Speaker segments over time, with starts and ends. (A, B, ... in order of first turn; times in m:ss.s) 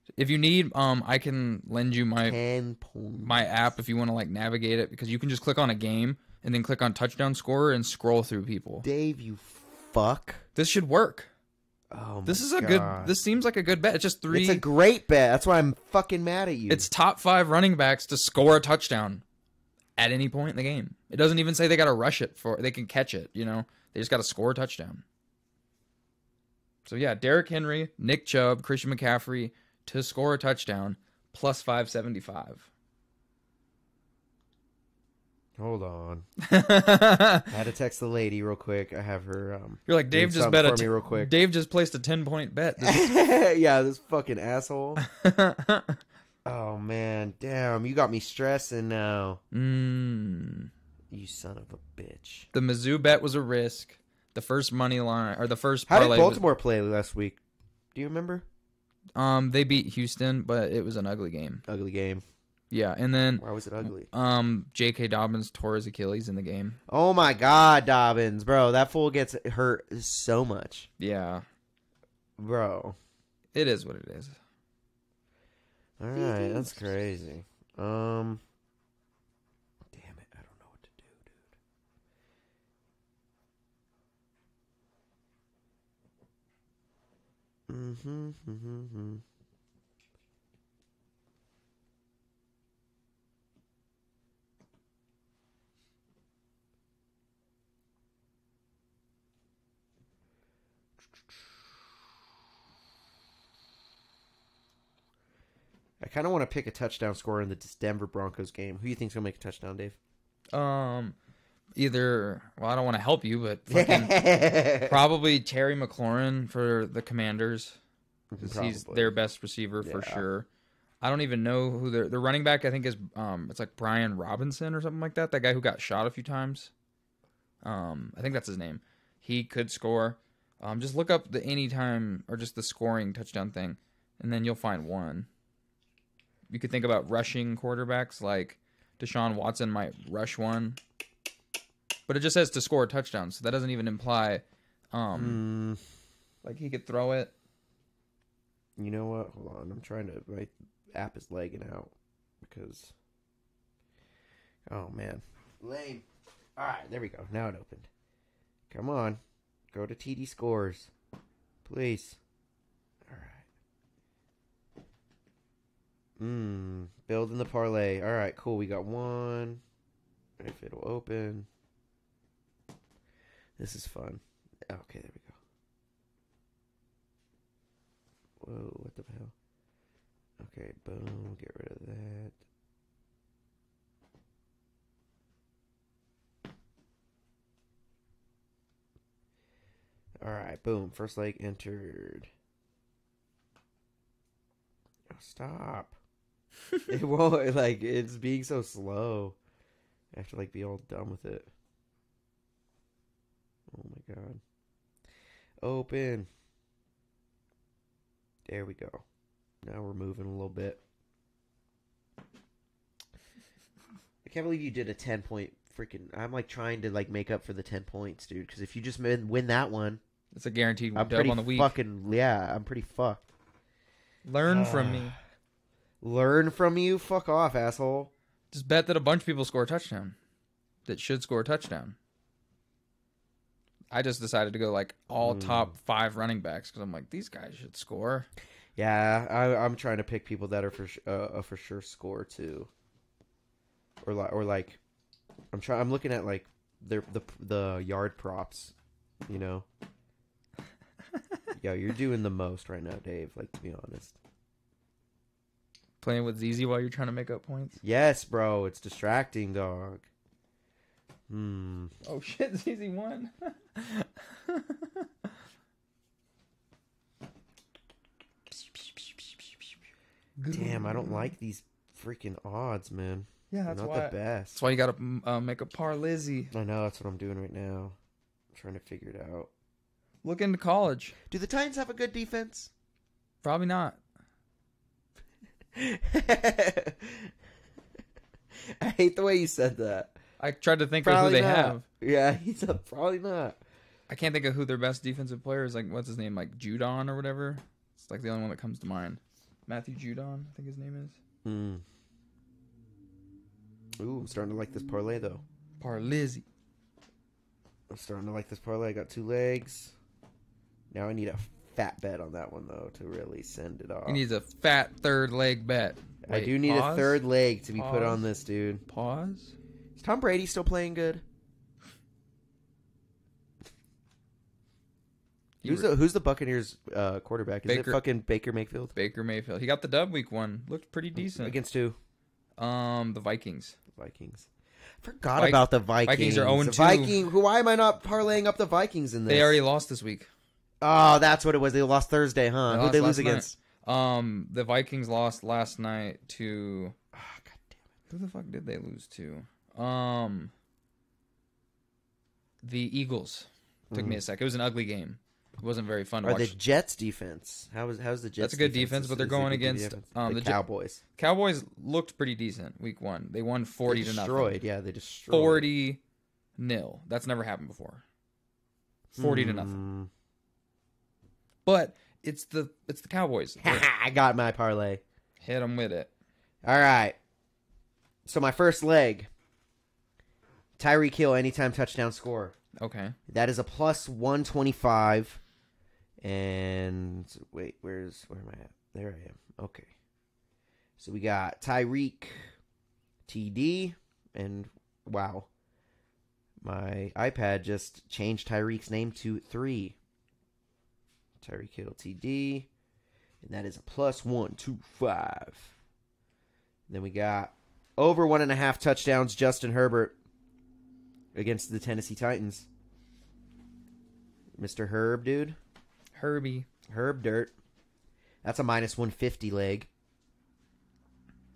0:00.2-0:02.4 A
0:02.2-0:03.4 B
0:03.2-0:08.8 A
0:08.8-0:10.4 B
0:10.6-0:11.3 A
0:11.9-0:13.1 B
0:12.2-0:14.6 A
0:14.3-0:16.9 B
0:16.7-0:19.2 A
0:20.0-0:25.0 A
0:26.8-0:32.7 A
0:35.6-0:36.2 B
0:36.4-0:37.5 A
0:37.5-0:41.3 B
0:39.9-0:43.1 A
0:42.8-0:45.0 B
0:45.0-0:46.0 A
0:46.4-0:49.4 B
0:49.5-0:50.7 A
0:51.1-0:52.5 B
0:52.5-0:56.4 A
0:55.9-0:57.4 B
0:57.9-0:58.4 B
0:59.1-1:01.6 A
1:01.7-1:02.2 B
1:02.7-1:06.8 A
1:03.4-1:04.1 B
1:06.9-1:10.9 B
1:11.0-1:11.4 A
1:12.4-1:13.0 B
1:13.5-1:14.4 A
1:16.0-1:18.4 B
1:19.9-1:21.4 B
1:27.7-1:29.2 B
1:46.0-1:50.0 B
1:50.5-1:51.2 A
1:51.7-1:54.1 A
1:53.7-1:55.0 B
1:54.8-1:57.8 A
1:58.3-1:59.1 B
1:58.4-2:00.5 A
1:59.8-2:00.2 B
2:01.0-2:06.7 A
2:07.6-2:15.3 A
2:16.5-2:20.8 A
2:22.1-2:25.4 A
2:25.1-2:25.8 B
2:26.4-2:27.3 A
2:28.8-2:32.9 B
2:34.7-2:36.0 B
2:36.6-2:37.9 B
2:38.7-2:39.2 B
2:39.7-2:40.9 B
2:41.6-2:42.2 B
2:43.1-2:43.4 B
2:46.2-2:49.6 B
2:50.4-2:51.5 B
2:53.6-2:55.4 B
2:58.4-2:59.3 B
3:00.4-3:02.4 B
3:10.2-3:12.3 B
3:15.1-3:16.0 B
3:16.9-3:19.4 B
3:20.1-3:21.5 B
3:23.7-3:24.4 B
3:25.6-3:26.3 B
3:28.5-3:29.0 B
3:29.6-3:30.8 B
3:34.2-3:40.0 B
3:40.3-3:41.7 A
3:40.9-3:43.2 B
3:44.2-3:45.2 A
3:44.5-3:45.2 B
3:46.0-3:48.1 B
3:48.5-3:50.2 A
3:50.8-3:52.0 A
3:53.9-3:58.3 A
3:55.2-3:55.7 B
3:58.8-4:02.7 B
4:04.0-4:04.8 B
4:05.5-4:08.7 B
4:09.3-4:09.6 B
4:11.5-4:14.2 B
4:16.0-4:17.8 A
4:17.8-4:20.1 B
4:21.3-4:21.9 B
4:22.0-4:25.3 A
4:30.4-4:31.3 A
4:30.5-4:34.6 B
4:33.5-4:36.5 A
4:36.5-4:38.0 B
4:38.5-4:39.5 B
4:40.2-4:41.2 A
4:41.3-4:42.7 B
4:43.4-4:44.0 A
4:45.7-4:47.3 B
4:48.8-4:50.1 B
4:50.4-4:51.8 A
4:51.0-4:53.6 B
4:54.1-5:01.2 A
5:01.4-5:01.8 B
5:04.0-5:05.4 B
5:05.8-5:06.4 A
5:07.9-5:09.9 B
5:10.9-5:14.2 B
5:14.1-5:17.2 A
5:16.2-5:18.8 B
5:17.7-5:18.2 A
5:18.9-5:19.5 A
5:20.0-5:21.2 B
5:25.6-5:28.9 B
5:25.6-5:25.9 A
5:27.7-5:28.0 A
5:28.9-5:31.6 A
5:31.2-5:32.0 B
5:32.6-5:33.8 A
5:33.9-5:34.5 B
5:35.0-5:39.5 B
5:35.4-5:37.2 A
5:39.3-5:40.3 A
5:40.8-5:43.6 B
5:42.7-5:46.9 A
5:47.1-5:47.8 B
5:48.1-5:50.5 A
5:52.6-5:56.6 A
5:53.9-5:54.2 B
5:56.2-6:01.0 B
5:58.4-6:00.6 A
6:01.2-6:04.6 A
6:03.9-6:05.7 B
6:05.3-6:06.0 A
6:06.6-6:08.0 A
6:09.1-6:10.1 B
6:09.2-6:09.8 A
6:11.6-6:13.8 A
6:13.6-6:15.0 B
6:15.4-6:16.1 A
6:16.6-6:17.2 B
6:18.2-6:19.3 B
6:20.8-6:22.5 B
6:22.8-6:23.2 A
6:23.3-6:25.4 B
6:26.2-6:29.9 B
6:31.0-6:32.5 B
6:33.3-6:35.5 B
6:36.6-6:40.0 B
6:41.4-6:42.7 B
6:43.4-6:45.7 B
6:46.9-6:50.1 B
6:51.3-6:52.7 B
6:54.6-6:55.6 B
6:56.1-6:56.7 A
6:56.9-6:57.5 B
6:58.4-6:59.9 B